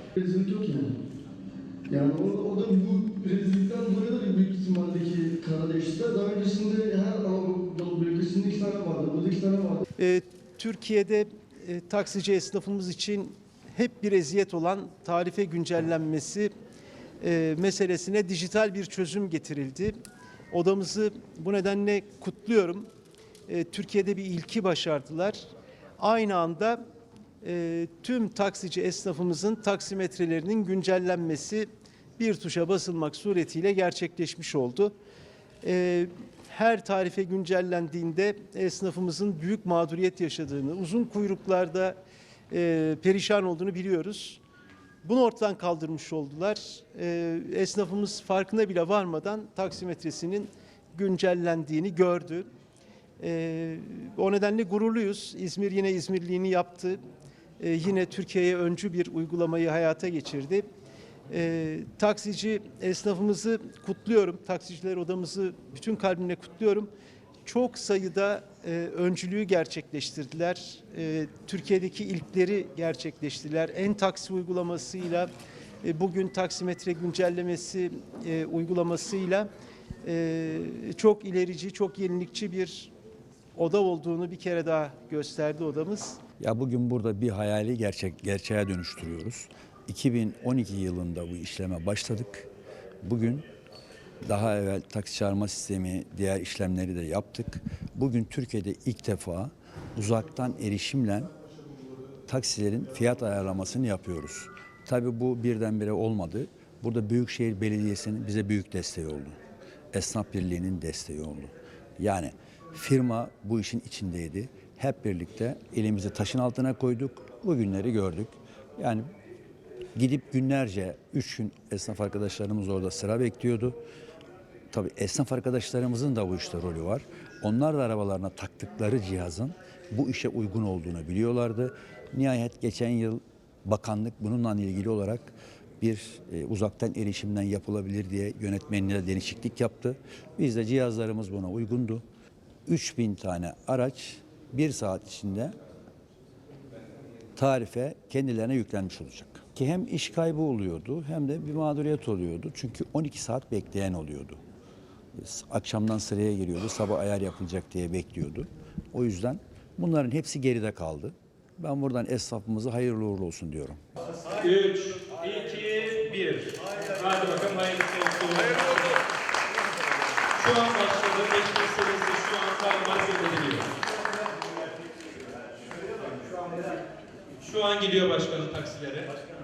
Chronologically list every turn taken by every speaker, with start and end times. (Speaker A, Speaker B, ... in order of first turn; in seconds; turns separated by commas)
Speaker A: 0.2-0.9, Speaker A: 1.9-9.8, Speaker B: 10.0-16.5, Speaker B: 17.2-19.9, Speaker B: 20.5-22.9, Speaker B: 23.5-25.4, Speaker B: 26.0-26.8, Speaker B: 27.4-31.7, Speaker B: 32.2-34.9, Speaker B: 35.6-42.0, Speaker B: 42.5-44.4, Speaker B: 45.0-52.5, Speaker B: 53.2-57.0, Speaker B: 57.6-60.6, Speaker B: 61.3-66.9, Speaker B: 67.4-75.3, Speaker B: 75.8-79.5, Speaker B: 80.0-82.9, Speaker B: 83.5-86.2, Speaker C: 86.4-92.5, Speaker C: 93.0-93.5, Speaker C: 94.2-101.3, Speaker C: 102.3-109.4, Speaker C: 109.9-119.1, Speaker C: 119.9-123.8, Speaker C: 124.7-142.0, Speaker C: 142.7-145.6, Speaker C: 147.3-154.4, Speaker C: 155.2-163.8, Speaker D: 164.3-169.0, Speaker B: 166.6-167.3, Speaker D: 170.4-173.7, Speaker B: 173.9-176.7, Speaker D: 177.4-179.1